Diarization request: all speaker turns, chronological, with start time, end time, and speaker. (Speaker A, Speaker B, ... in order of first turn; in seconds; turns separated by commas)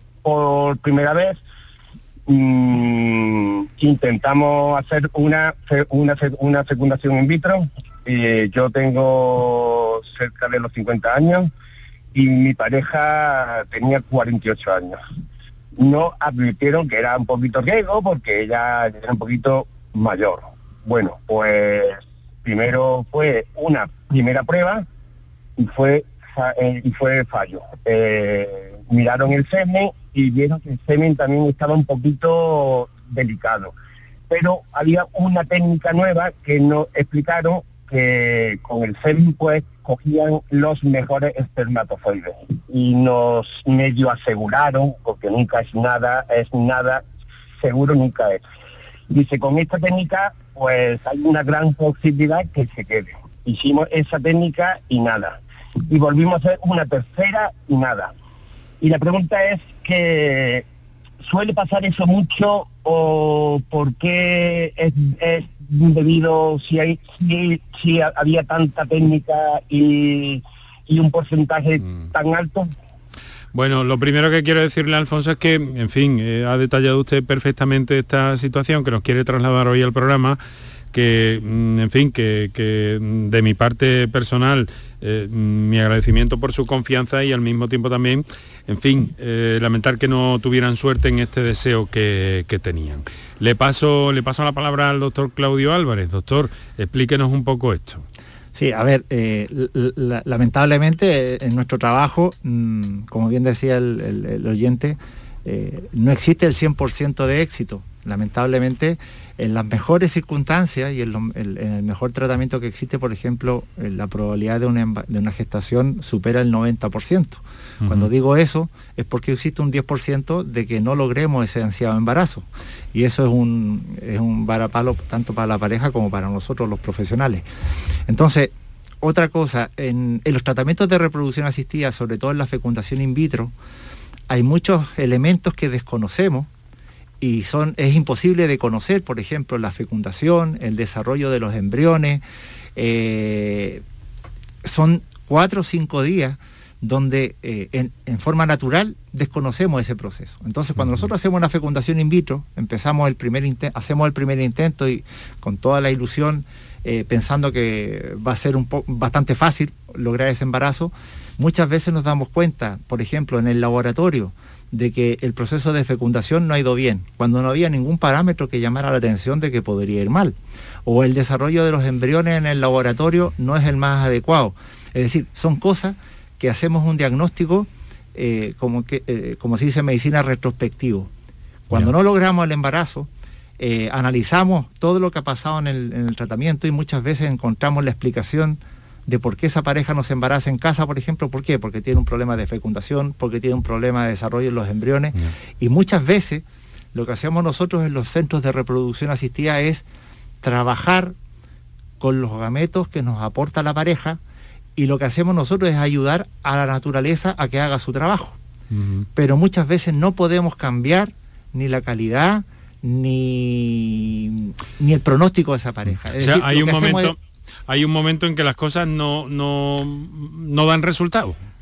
Speaker A: 0.2-1.4, Speaker A: 2.3-11.5, Speaker A: 12.1-15.0, Speaker A: 15.8-24.9, Speaker A: 25.6-33.7, Speaker A: 34.3-47.0, Speaker A: 47.6-48.4, Speaker A: 49.1-58.1, Speaker A: 58.8-60.6, Speaker A: 61.2-72.7, Speaker B: 73.5-80.4, Speaker B: 80.9-98.0, Speaker C: 98.5-127.5, Speaker B: 117.8-118.1, Speaker C: 128.1-133.5, Speaker C: 134.3-136.5, Speaker C: 137.2-142.2, Speaker C: 142.8-143.8, Speaker C: 144.6-181.1, Speaker B: 150.8-151.1, Speaker C: 181.7-199.8, Speaker C: 200.4-201.2, Speaker C: 202.0-204.2, Speaker C: 204.8-208.4, Speaker B: 208.7-209.1, Speaker C: 209.1-217.2, Speaker B: 216.2-221.4